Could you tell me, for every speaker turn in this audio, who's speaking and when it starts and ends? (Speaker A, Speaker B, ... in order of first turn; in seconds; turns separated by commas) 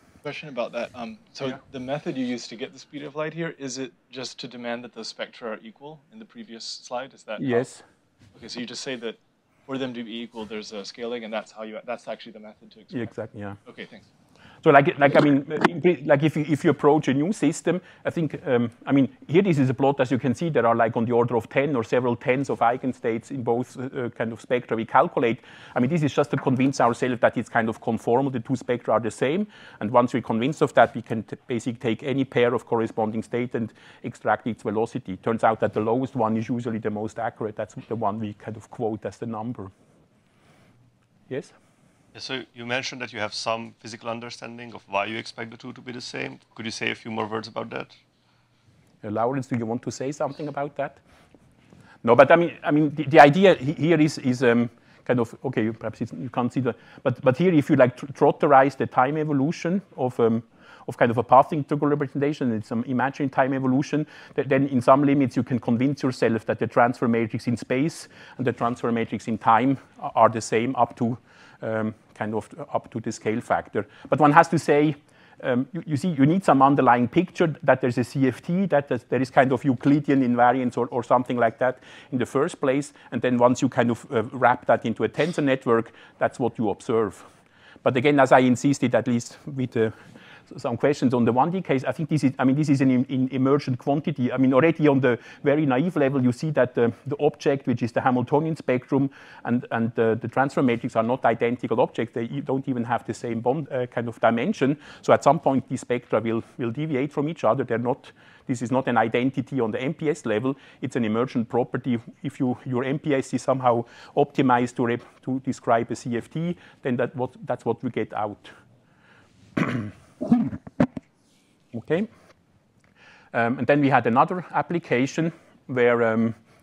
Speaker A: 0.2-7.7, Speaker B: 7.4-7.8, Speaker A: 8.3-13.1, Speaker B: 12.9-13.6, Speaker A: 13.7-14.1, Speaker B: 14.6-39.7, Speaker C: 42.1-48.0, Speaker B: 49.0-51.0, Speaker B: 52.0-87.3, Speaker B: 87.8-89.9, Speaker B: 90.5-118.5, Speaker B: 119.6-120.6, Speaker B: 121.7-122.1, Speaker B: 123.3-126.4